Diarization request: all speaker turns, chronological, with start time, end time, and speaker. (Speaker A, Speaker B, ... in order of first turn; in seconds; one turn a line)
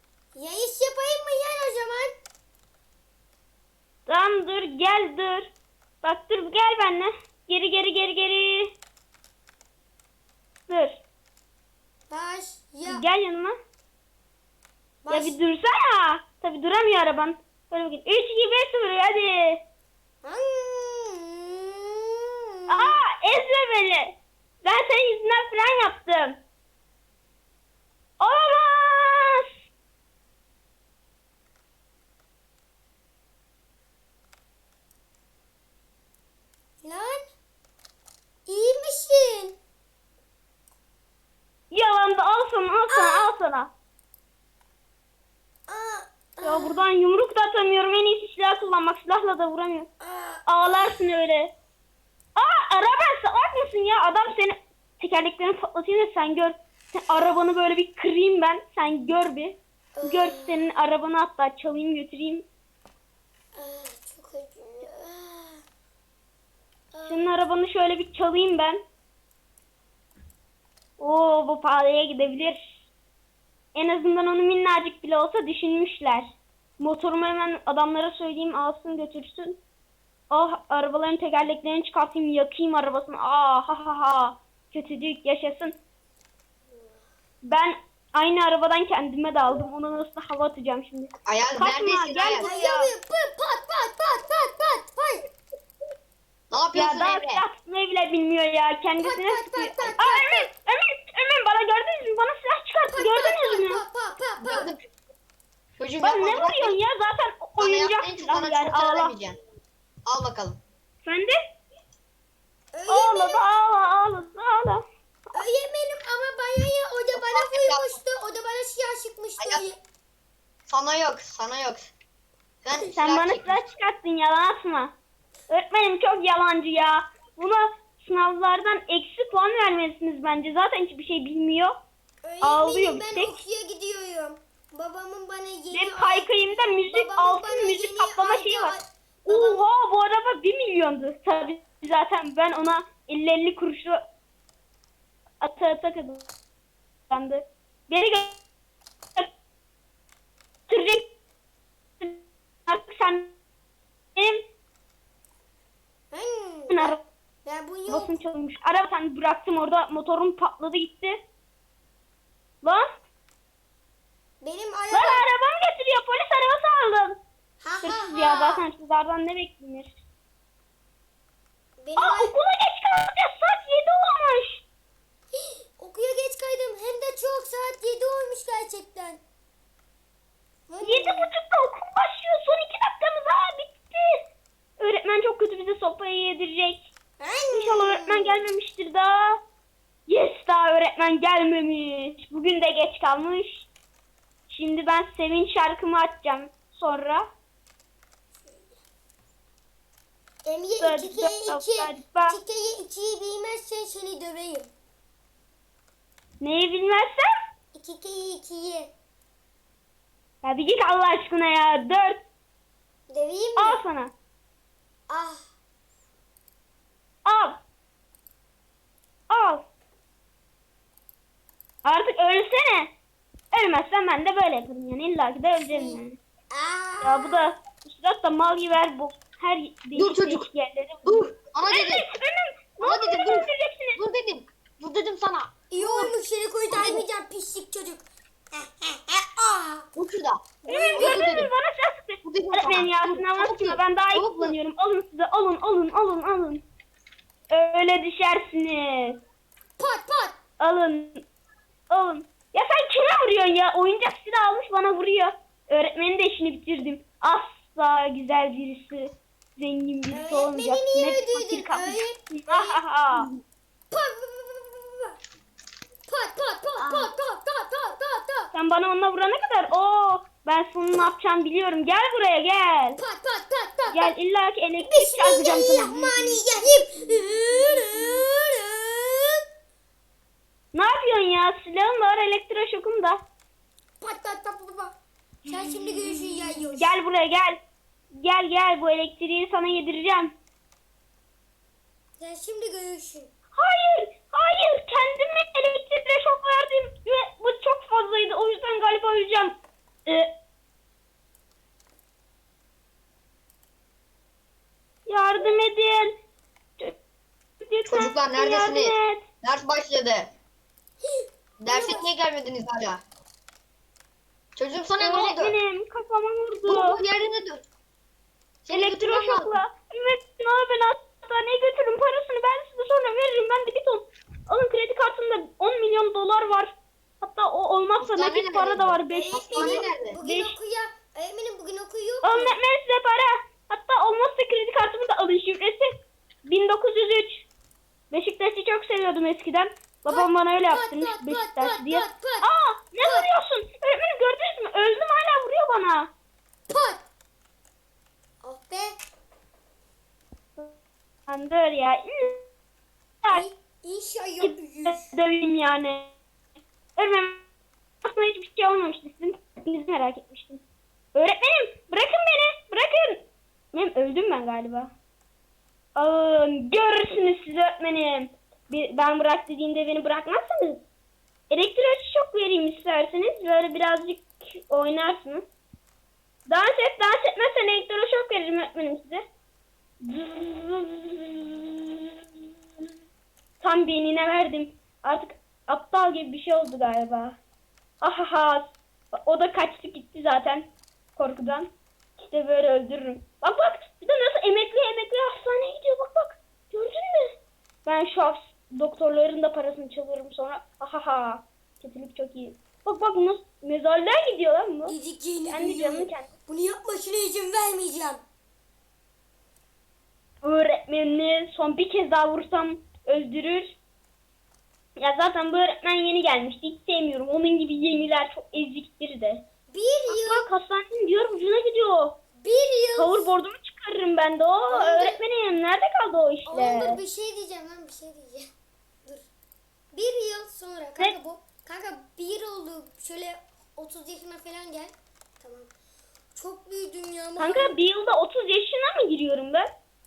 Speaker A: 0.3-2.1
Speaker B: 4.1-8.8
Speaker B: 10.7-11.0
Speaker A: 12.1-13.1
Speaker B: 12.8-13.6
Speaker A: 15.0-15.4
Speaker B: 15.1-19.6
Speaker A: 20.2-21.8
Speaker A: 22.6-23.0
Speaker B: 22.7-26.4
Speaker B: 28.2-29.5
Speaker A: 36.8-37.2
Speaker A: 38.5-39.6
Speaker B: 41.7-43.7
Speaker A: 42.9-43.3
Speaker A: 45.7-46.8
Speaker B: 46.4-49.9
Speaker A: 50.0-51.0
Speaker B: 50.5-51.5
Speaker B: 52.4-62.5
Speaker A: 60.0-60.7
Speaker A: 63.5-65.6
Speaker A: 66.9-67.3
Speaker B: 67.1-68.8
Speaker B: 71.0-72.9
Speaker B: 73.8-79.6
Speaker B: 80.3-85.7
Speaker A: 86.7-87.0
Speaker B: 87.5-92.9
Speaker C: 91.2-92.5
Speaker A: 92.4-95.3
Speaker C: 96.5-97.5
Speaker B: 96.7-103.8
Speaker A: 99.0-100.5
Speaker A: 102.9-104.7
Speaker C: 104.4-104.8
Speaker C: 105.8-106.8
Speaker B: 106.0-109.1
Speaker C: 107.6-109.4
Speaker C: 110.1-110.6
Speaker B: 111.0-111.4
Speaker A: 112.7-113.4
Speaker B: 112.9-114.8
Speaker A: 115.3-119.8
Speaker C: 117.1-117.9
Speaker C: 119.4-119.6
Speaker C: 120.7-121.9
Speaker C: 122.6-123.6
Speaker B: 123.0-124.9
Speaker B: 125.5-131.8
Speaker A: 132.2-139.7
Speaker B: 132.4-133.3
Speaker B: 135.7-138.8
Speaker B: 139.3-144.0
Speaker B: 145.4-146.3
Speaker B: 147.1-148.4
Speaker B: 150.7-151.1
Speaker B: 152.0-153.4
Speaker B: 154.1-154.4
Speaker A: 156.1-158.1
Speaker B: 156.7-157.0
Speaker B: 157.9-161.2
Speaker B: 162.6-162.9
Speaker A: 164.4-165.2
Speaker B: 164.9-167.2
Speaker A: 167.6-168.7
Speaker B: 167.8-169.9
Speaker A: 171.8-172.3
Speaker B: 172.0-174.6
Speaker A: 175.8-179.2
Speaker A: 180.7-181.3
Speaker B: 180.8-184.2
Speaker B: 184.8-186.8
Speaker A: 187.2-188.5
Speaker B: 187.5-189.4
Speaker B: 190.1-193.7
Speaker B: 194.5-197.2
Speaker A: 198.4-198.8
Speaker A: 200.4-204.7
Speaker B: 200.8-202.4
Speaker B: 206.4-207.3
Speaker A: 207.7-208.9
Speaker B: 210.4-212.2
Speaker A: 213.1-213.8
Speaker B: 213.6-214.1
Speaker A: 215.1-215.4
Speaker B: 217.2-217.6
Speaker B: 219.3-219.6
Speaker B: 221.8-222.9
Speaker B: 223.5-226.2
Speaker A: 225.7-227.5
Speaker B: 227.0-234.0
Speaker C: 229.9-230.5
Speaker C: 231.1-232.1
Speaker C: 232.8-236.1
Speaker A: 235.7-239.9
Speaker C: 236.7-237.0
Speaker C: 240.0-241.5
Speaker A: 240.6-241.3
Speaker B: 240.7-246.6
Speaker C: 242.2-244.6
Speaker B: 247.5-249.2
Speaker A: 249.8-250.4
Speaker B: 250.6-251.2
Speaker B: 251.9-263.3
Speaker A: 260.1-262.8
Speaker A: 263.9-265.2
Speaker A: 266.1-268.5
Speaker B: 266.8-267.1
Speaker B: 268.5-273.0
Speaker A: 273.0-274.1
Speaker B: 273.9-276.2
Speaker A: 274.9-279.4
Speaker B: 280.7-283.2
Speaker A: 284.0-284.9
Speaker A: 285.5-286.9
Speaker B: 285.5-287.6
Speaker B: 288.1-290.3
Speaker A: 292.2-293.3
Speaker B: 293.6-300.3
Speaker B: 305.1-306.1
Speaker B: 307.6-309.3
Speaker C: 307.9-310.3
Speaker A: 311.1-312.1
Speaker C: 311.6-313.0
Speaker C: 314.6-315.6
Speaker B: 315.0-317.0
Speaker C: 316.6-317.6
Speaker C: 318.6-319.6
Speaker B: 318.7-330.6
Speaker C: 328.0-330.2
Speaker A: 329.1-332.6
Speaker B: 332.2-335.9
Speaker B: 336.4-337.5
Speaker B: 338.1-346.1
Speaker A: 340.1-343.3
Speaker A: 346.7-347.0
Speaker A: 348.4-349.0
Speaker B: 351.3-352.5
Speaker A: 353.3-355.1
Speaker B: 354.4-356.1
Speaker B: 357.0-357.5
Speaker B: 358.0-360.6
Speaker B: 361.1-364.9
Speaker B: 366.0-370.8
Speaker B: 371.5-375.4
Speaker B: 376.5-379.2
Speaker B: 380.0-382.2
Speaker B: 383.6-387.4
Speaker B: 388.0-404.9
Speaker A: 404.9-408.2
Speaker B: 405.5-406.3
Speaker B: 410.4-413.8
Speaker B: 415.0-419.4
Speaker A: 419.7-420.5
Speaker B: 420.1-422.2
Speaker A: 422.4-423.3
Speaker B: 423.0-427.0
Speaker A: 424.7-425.2
Speaker A: 426.5-428.5
Speaker A: 429.9-435.7
Speaker A: 436.4-437.8
Speaker B: 437.4-439.7